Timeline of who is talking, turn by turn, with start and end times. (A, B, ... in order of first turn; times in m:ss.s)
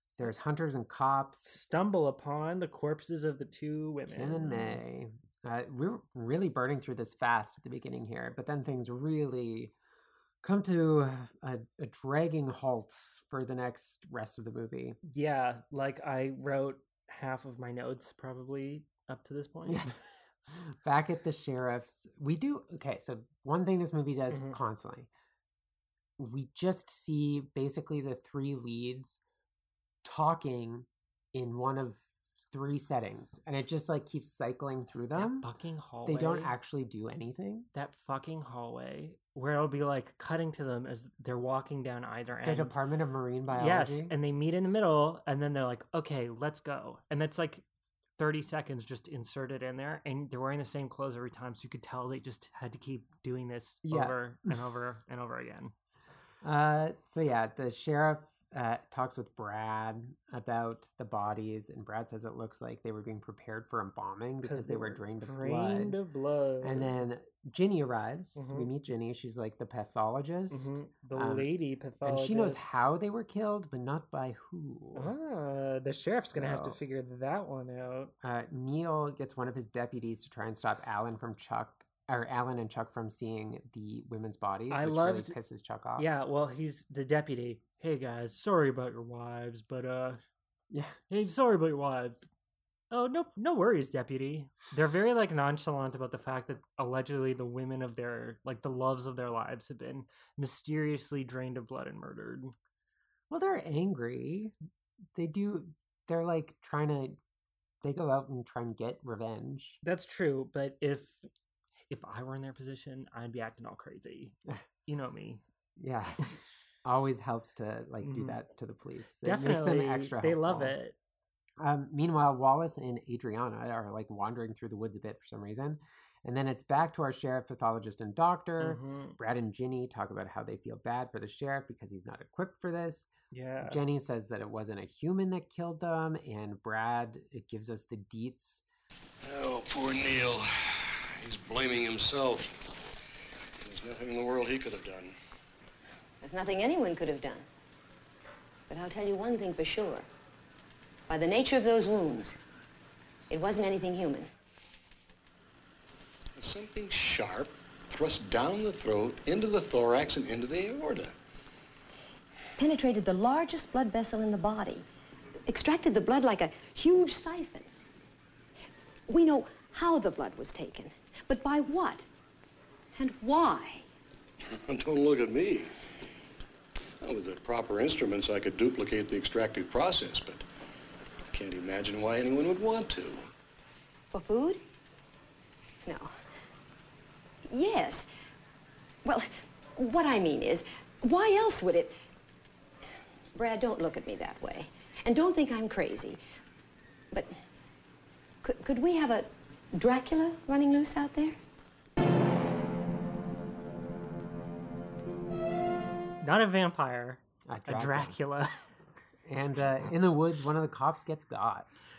0:00.2-0:01.5 A
0:01.4-0:04.8 B
0:04.1-0:09.7 A
0:10.4-0:15.0 A
0:15.0-0:20.0 B
0:19.6-0:19.9 A
0:20.5-0:25.1 A
0:24.3-0:24.6 B
0:26.2-0:29.2 A
0:30.0-0:35.5 A
0:35.1-0:36.5 B
0:36.0-0:37.7 A
0:37.7-0:42.8 B
0:42.4-0:44.2 A
0:43.5-0:47.6 B
0:48.2-0:55.7 B
0:53.8-0:54.5 A
0:56.4-1:06.0 A
1:04.4-1:07.0 B
1:06.6-1:11.5 A
1:08.4-1:08.7 B
1:10.5-1:12.8 B
1:12.0-1:15.1 A
1:14.9-1:18.1 B
1:16.0-1:16.8 A
1:18.2-1:26.1 A
1:24.7-1:25.4 B
1:26.0-1:30.2 B
1:30.7-1:31.0 A
1:31.1-1:32.2 B
1:32.9-1:42.5 B
1:43.3-1:44.5 A
1:45.1-1:47.2 A
1:47.8-1:49.8 A
1:49.8-1:51.2 B
1:51.9-1:54.4 B
1:54.9-1:55.4 B
1:55.8-1:56.2 A
1:56.8-2:00.8 A
1:58.0-1:58.4 B
1:59.2-2:01.0 B
2:01.6-2:13.1 A
2:08.6-2:09.2 B
2:13.3-2:13.8 B
2:13.6-2:18.6 A
2:19.2-2:22.5 C
2:23.6-2:25.1 C
2:26.2-2:27.4 D
2:28.7-2:30.1 D
2:31.1-2:32.4 D
2:33.3-2:34.3 D
2:36.4-2:41.1 C
2:42.6-2:44.9 D
2:45.5-2:47.7 D
2:49.1-2:52.1 D
2:52.9-2:53.8 D
2:54.4-2:55.7 C
2:57.0-3:00.4 C
3:01.3-3:03.2 C
3:04.1-3:04.6 D
3:05.8-3:06.1 D
3:07.5-3:08.1 D
3:09.0-3:12.0 D
3:13.3-3:16.2 D
3:17.1-3:17.4 D
3:18.4-3:21.4 D
3:26.2-3:28.5 B
3:27.4-3:28.2 A
3:29.2-3:31.7 A